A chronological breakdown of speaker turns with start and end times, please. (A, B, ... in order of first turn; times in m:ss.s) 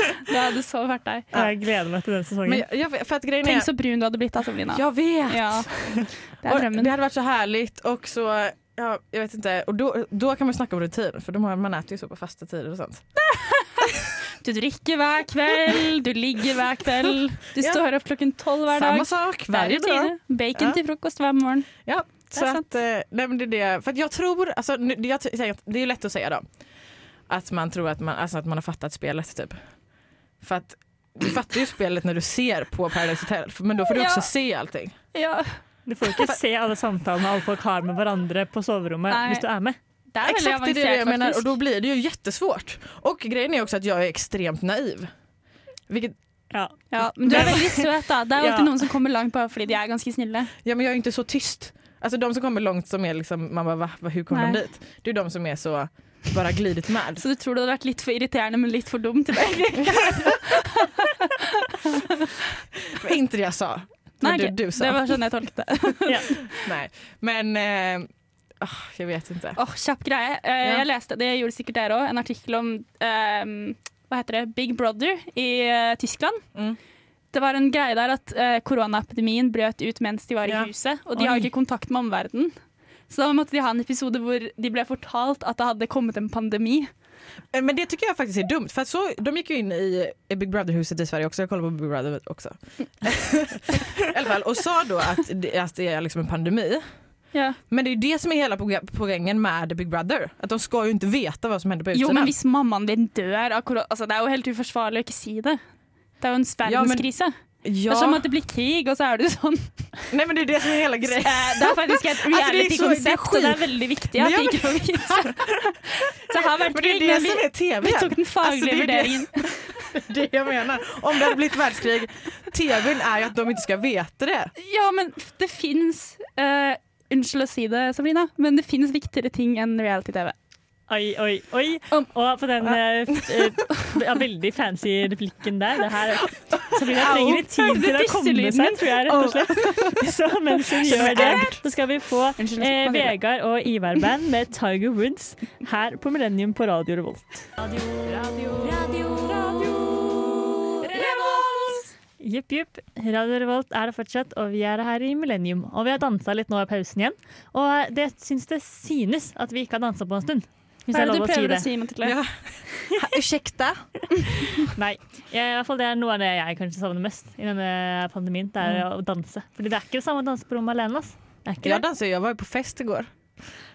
0:00.2-0:01.3 A
0:01.3-0:02.6 B
0:02.4-0:03.7 C
0:03.4-0:06.9 A
0:04.7-0:05.8 C
0:06.4-0:13.3 C
0:14.4-0:22.6 A
0:18.7-0:20.8 C
0:21.8-0:26.4 C
0:27.3-0:29.6 C
0:30.4-0:35.0 C
0:33.9-0:34.3 A
0:35.1-0:35.6 A
0:35.9-0:39.8 B
0:39.1-0:39.4 A
0:40.1-0:41.5 A
0:40.2-0:45.1 C
0:45.9-0:46.2 C
0:46.5-0:48.7 B
0:46.9-0:50.5 A
0:47.3-0:47.5 C
0:50.6-0:57.2 C
0:54.3-0:54.6 A
0:57.2-1:01.1 A
0:59.9-1:00.2 C
1:01.7-1:02.1 A
1:02.9-1:05.1 C
1:04.2-1:06.6 A
1:06.5-1:09.6 C
1:09.6-1:16.4 A
1:17.3-1:22.5 A
1:20.4-1:20.7 C
1:21.2-1:21.5 B
1:23.1-1:26.9 A
1:27.5-1:36.8 C
1:37.7-1:42.3 C
1:41.9-1:45.6 A
1:46.2-1:47.3 A
1:46.6-1:47.1 C
1:47.6-1:48.2 C
1:47.9-1:49.9 A
1:50.1-1:55.4 C
1:51.2-1:59.8 A
1:56.3-2:04.5 C
2:04.6-2:10.4 A
2:10.9-2:30.9 B
2:12.7-2:13.5 C
2:16.9-2:19.2 A
2:19.1-2:19.9 C
2:20.8-2:21.6 C
2:22.4-2:23.2 A
2:29.1-2:29.8 A
2:30.8-2:31.9 A
2:32.2-2:41.7 B
2:40.9-2:42.2 A
2:42.0-2:44.6 C
2:44.8-2:51.8 B
2:51.6-2:53.1 C